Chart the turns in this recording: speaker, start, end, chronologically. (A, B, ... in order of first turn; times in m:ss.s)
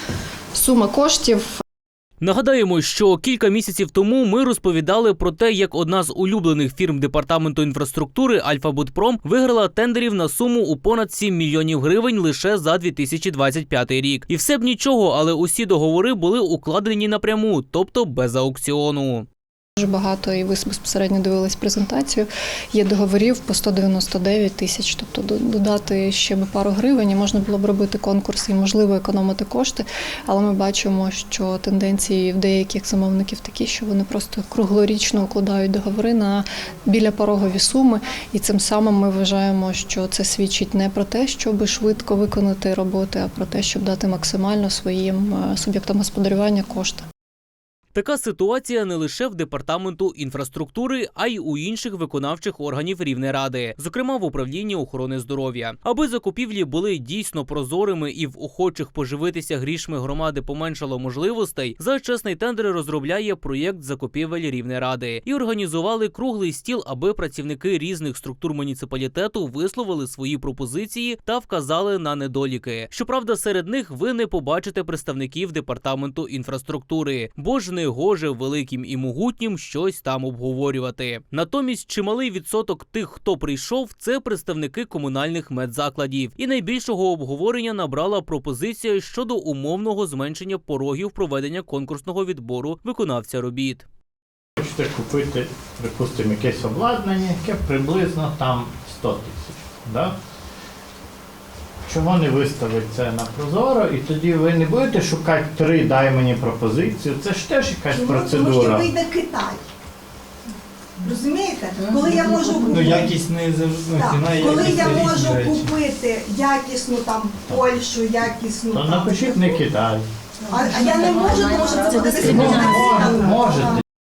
0:00.6-0:01.5 A
0:02.2-0:19.3 B
0:19.8-0:47.0 A
0:47.9-1:33.9 B
1:34.6-1:40.2 C
1:41.9-1:48.9 C
1:47.9-1:49.6 D
1:51.0-1:53.2 D
1:51.8-1:55.7 E
1:53.9-1:59.6 D
1:58.7-2:00.1 C
2:00.5-2:03.8 D
2:00.5-2:02.8 E
2:02.2-2:03.8 C